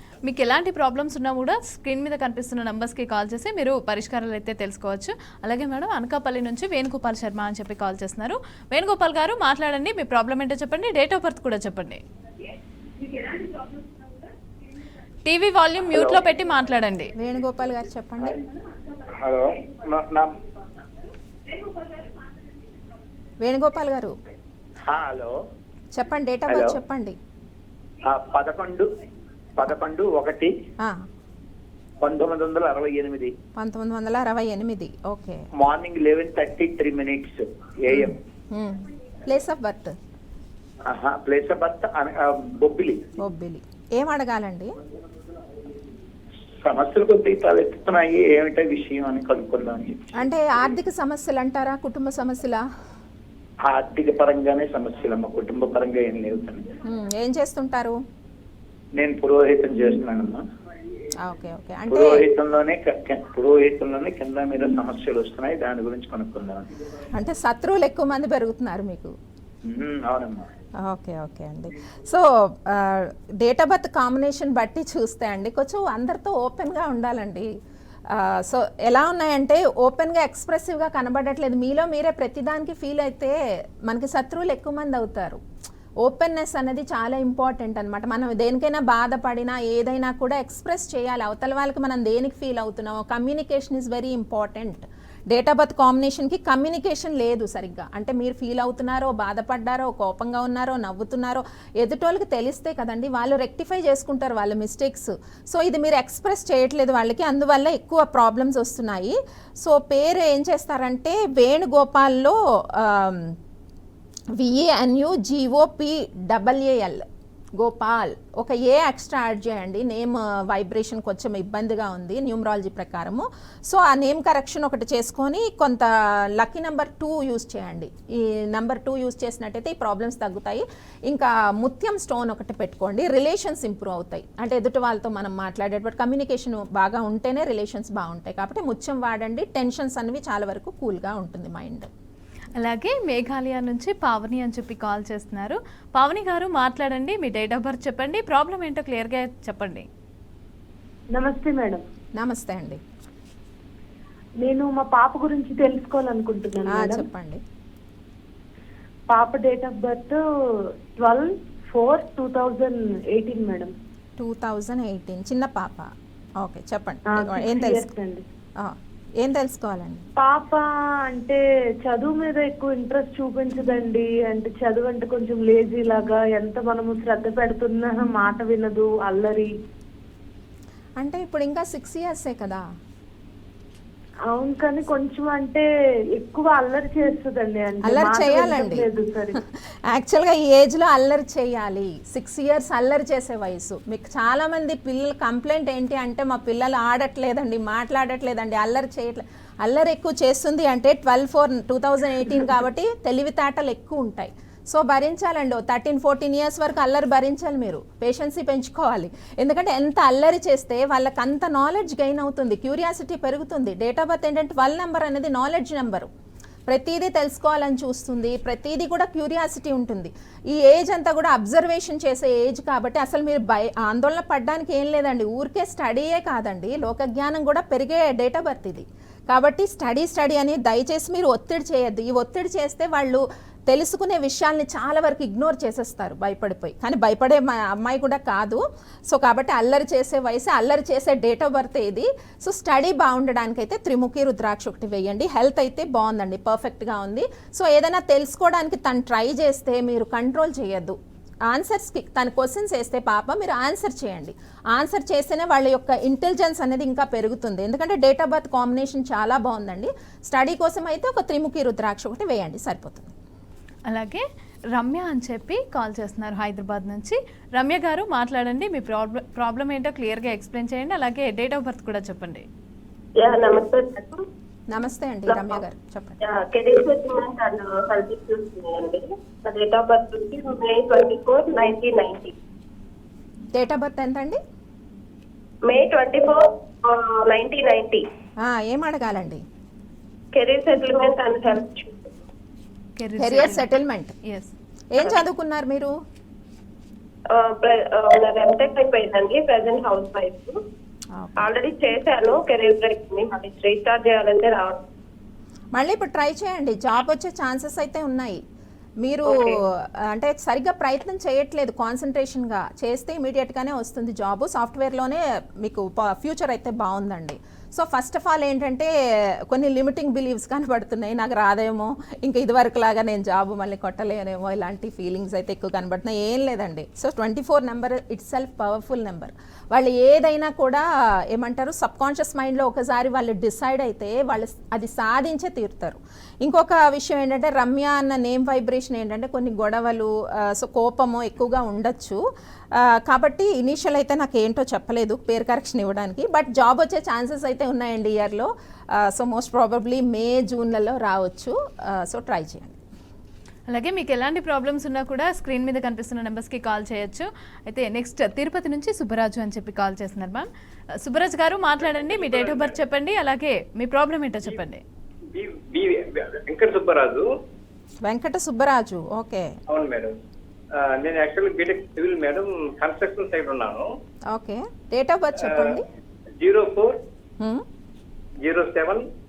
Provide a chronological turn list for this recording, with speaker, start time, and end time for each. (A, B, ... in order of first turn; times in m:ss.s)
0:00.2-0:12.0 A
0:15.2-0:17.1 A
0:17.1-0:18.4 B
0:19.2-0:20.3 C
0:23.4-0:24.2 B
0:24.9-0:25.3 C
0:25.9-0:27.2 B
0:26.5-0:26.8 C
0:28.1-0:28.9 C
0:29.6-0:30.5 C
0:30.8-0:31.0 B
0:32.0-0:33.3 C
0:33.6-0:35.4 B
0:35.6-0:38.2 C
0:37.9-0:40.0 B
0:40.9-0:43.1 C
0:43.2-0:44.7 B
0:46.6-0:50.0 C
0:50.2-0:52.6 B
0:53.6-0:56.7 C
0:56.8-0:58.0 B
0:59.0-1:00.4 C
1:01.2-1:02.2 B
1:01.9-1:06.7 C
1:07.1-1:09.1 B
1:09.6-1:10.5 C
1:10.8-1:17.5 B
1:18.1-1:25.4 B
1:26.0-1:53.4 B
1:54.4-1:57.0 B
1:57.6-2:21.9 B
2:22.6-2:29.9 A
2:31.1-2:31.8 D
2:32.2-2:32.8 B
2:34.4-2:37.0 D
2:36.7-2:37.4 B
2:39.1-2:40.2 D
2:41.0-2:43.7 D
2:44.2-2:47.9 B
2:47.1-2:48.2 D
2:48.6-2:50.1 B
2:50.2-2:59.5 D
3:01.0-3:02.6 B
3:04.3-3:05.6 D
3:06.2-3:09.4 D
3:07.8-3:36.1 B
3:36.7-4:11.0 B
4:11.5-4:23.1 B
4:23.9-4:32.5 A
4:33.2-4:34.2 E
4:34.7-4:36.2 B
4:35.3-4:35.6 E
4:36.2-4:42.3 E
4:43.5-4:44.4 B
4:45.7-4:48.0 E
4:48.4-4:49.4 B
4:50.3-4:52.0 E
4:53.0-4:53.7 A
4:53.2-4:54.2 B
4:54.2-4:54.5 A
4:54.9-4:55.9 B
4:57.3-5:00.6 E
5:01.1-5:01.4 B
5:01.4-5:04.8 E
5:05.8-5:08.4 B
5:09.0-5:18.9 B
5:09.2-5:09.6 E
5:19.5-5:42.2 B
5:42.7-5:52.8 B
5:53.7-6:00.5 A
6:01.0-6:04.8 A
6:01.8-6:02.8 F
6:05.3-6:07.2 F
6:08.0-6:09.5 B
6:09.7-6:10.1 F
6:10.8-6:13.9 F
6:14.3-6:15.8 B
6:15.4-6:15.8 F
6:16.4-6:17.0 F
6:17.4-6:17.6 B
6:18.4-6:19.1 F